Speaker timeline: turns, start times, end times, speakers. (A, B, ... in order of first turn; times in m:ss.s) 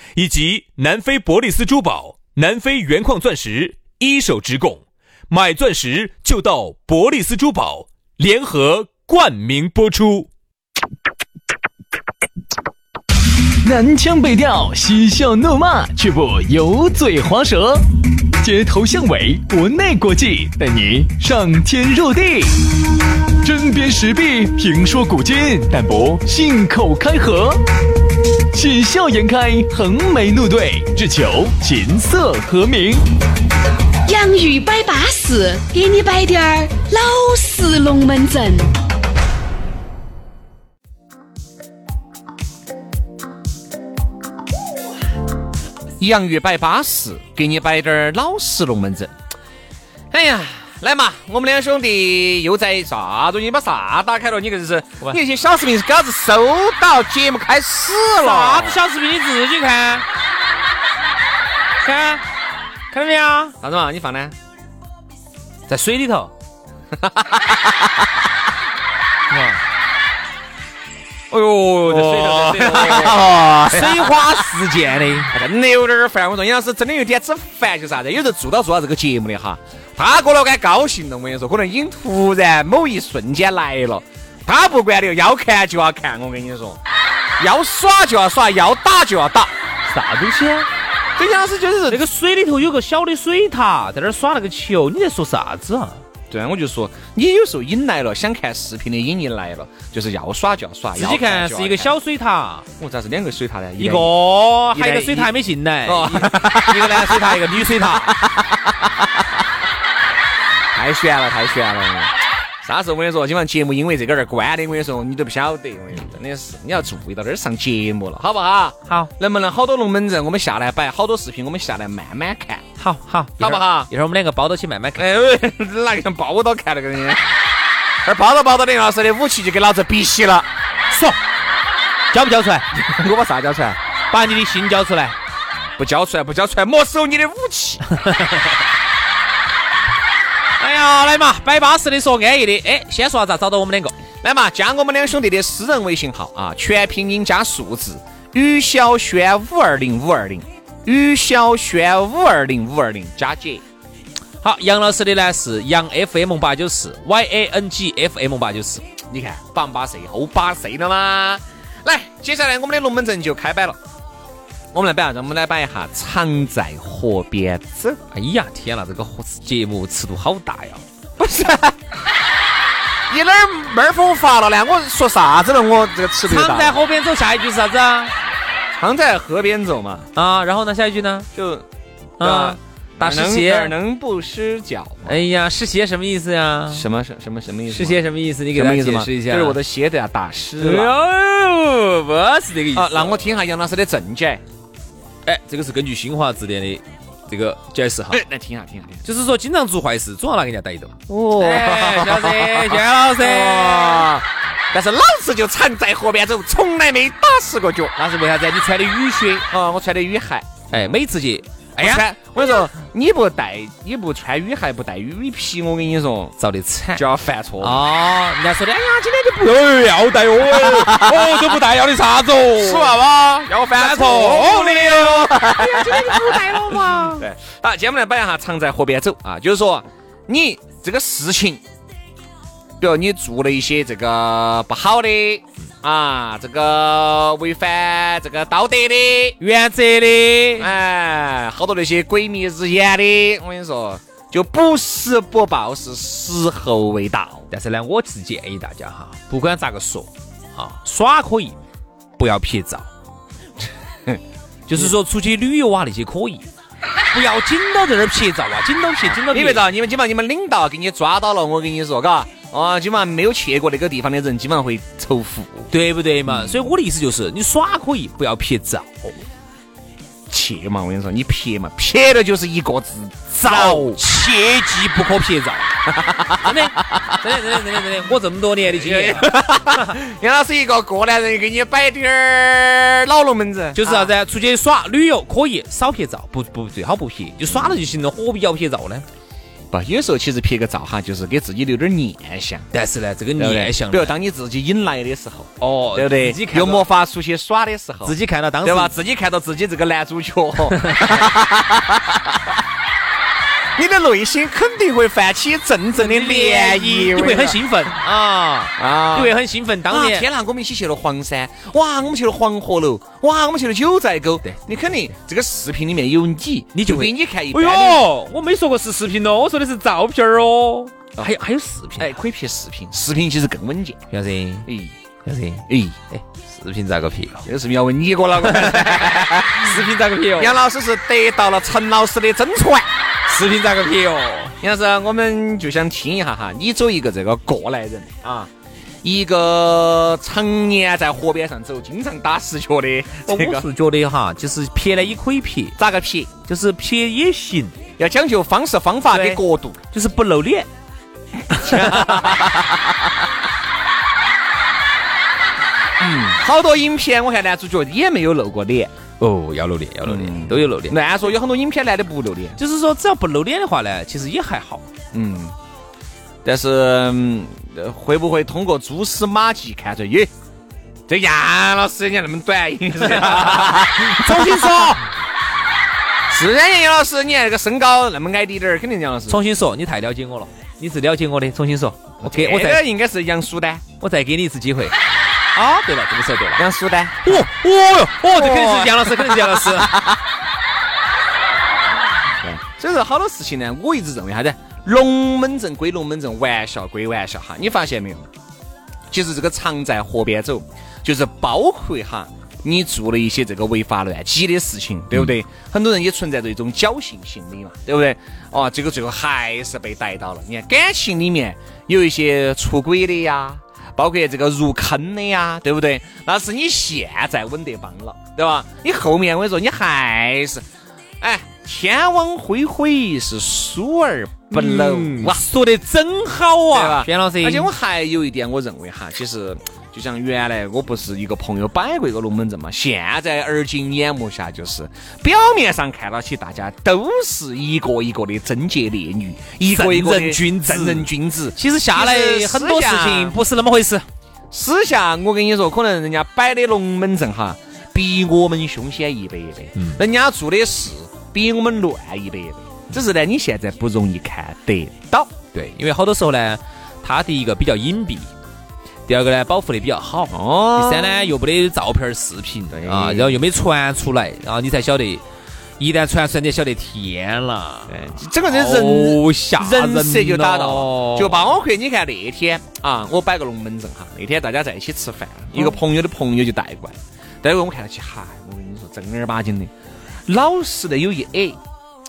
0:00.2-0:04.8 A
0:02.1-0:02.5 B
0:03.7-0:04.1 B
0:05.3-0:09.5 A
0:05.6-0:07.1 B
0:07.8-0:08.2 B
0:08.8-0:10.3 B
0:13.6-0:17.9 C
0:18.4-0:22.6 C
0:23.4-0:27.6 C
0:28.5-0:33.0 C
0:34.0-0:38.7 D
0:46.0-0:49.1 E
0:50.1-0:58.8 E
0:58.0-1:00.0 A
1:01.8-1:02.2 A
1:02.9-1:03.5 A
1:03.6-1:04.3 E
1:05.7-1:06.3 A
1:07.0-1:07.6 E
1:09.3-1:09.6 A
1:11.3-1:14.1 E
1:11.8-1:15.3 A
1:15.3-1:26.8 E
1:27.4-1:29.5 E
1:29.9-1:30.7 A
1:31.2-1:32.0 E
1:31.9-1:36.0 A
1:36.3-1:42.0 E
1:40.9-1:42.6 A
1:42.8-1:44.1 E
1:43.8-1:48.2 A
1:44.7-1:45.3 E
1:45.8-1:47.4 E
1:50.7-2:02.6 E
2:02.8-2:05.1 A
2:03.4-2:03.9 E
2:05.0-2:07.2 E
2:08.0-2:10.5 E
2:10.9-2:11.2 A
2:12.1-2:12.7 A
2:12.7-2:13.8 E
2:14.1-2:15.2 A
2:15.8-2:17.8 E
2:20.6-2:24.0 A
2:24.2-2:33.6 E
2:34.4-2:38.8 A
2:39.1-2:43.8 E
2:44.7-2:48.0 E
2:48.1-2:50.8 A
2:51.2-2:51.8 E
2:53.1-2:56.8 E
2:56.3-2:58.1 A
2:58.7-3:00.1 E
3:00.1-3:01.3 A
3:01.3-3:01.6 E
3:02.2-3:03.7 A
3:02.2-3:05.2 E
3:05.0-3:06.8 A
3:06.7-3:10.9 E
3:07.7-3:09.6 A
3:10.5-3:13.3 A
3:12.7-3:14.4 E
3:15.2-3:18.2 A
3:18.1-3:19.0 E
3:19.0-3:24.2 A
3:21.1-3:27.9 E
3:28.0-3:29.5 A
3:29.5-3:30.8 E
3:30.7-3:32.7 A
3:31.8-3:36.4 E
3:36.4-3:37.0 A
3:36.9-3:37.8 E
3:37.6-3:43.1 A
3:40.6-3:41.1 E
3:42.6-3:51.6 E
3:43.6-3:47.2 A
3:52.8-3:59.4 E
3:59.4-4:00.7 A
4:00.6-4:07.5 E
4:07.5-4:11.6 A
4:12.2-4:12.9 A
4:14.7-4:16.5 A
4:17.1-4:19.6 A
4:19.1-4:25.7 E
4:25.7-4:29.1 A
4:26.2-4:26.7 E
4:30.3-4:34.0 E
4:33.4-4:35.6 A
4:36.4-4:40.0 A
4:38.7-4:44.1 E
4:43.7-4:49.0 A
4:47.5-4:47.8 E
4:49.7-4:52.7 E
4:52.7-4:54.1 A
4:53.4-5:02.0 E
4:55.6-4:56.9 A
4:58.0-4:58.9 A
5:00.7-5:01.2 A
5:03.8-5:07.6 E
5:06.0-5:10.2 A
5:08.8-5:09.4 E
5:09.9-5:18.1 E
5:14.4-5:14.9 A
5:16.7-5:22.2 A
5:22.0-5:24.0 E
5:24.1-5:24.7 A
5:24.6-5:24.9 E
5:25.2-5:27.5 A
5:25.7-5:26.0 E
5:27.4-5:29.8 E
5:28.4-5:30.6 A
5:30.4-5:32.9 E
5:33.3-5:34.5 A
5:34.6-5:38.5 E
5:39.0-5:43.6 E
5:43.2-5:45.8 A
5:45.8-5:46.3 E
5:46.4-5:47.7 A
5:48.0-5:49.8 E
5:49.1-5:50.7 A
5:51.5-5:52.6 E
5:51.6-5:52.5 A
5:56.0-5:58.9 E
5:59.2-6:01.0 A
6:00.0-6:02.6 E
6:02.6-6:04.8 A
6:05.1-6:05.5 E
6:06.4-6:10.3 E
6:11.1-6:15.0 E
6:13.1-6:15.0 A
6:16.3-6:19.4 E
6:19.3-6:22.8 A
6:22.2-6:23.8 E
6:24.0-6:25.0 A
6:25.5-6:26.7 A
6:26.6-6:27.5 E
6:27.2-6:30.1 A
6:28.3-6:30.1 E
6:32.4-6:38.3 E
6:39.1-7:00.6 E
7:01.2-7:05.4 E
7:04.5-7:07.7 A
7:06.7-7:23.4 E
7:19.7-7:24.0 A
7:24.5-7:35.3 E
7:35.5-7:38.3 A
7:39.0-7:45.2 A
7:40.3-7:41.3 E
7:42.7-7:43.4 E
7:45.8-7:51.5 A
7:47.9-7:59.7 E
8:00.3-8:01.6 E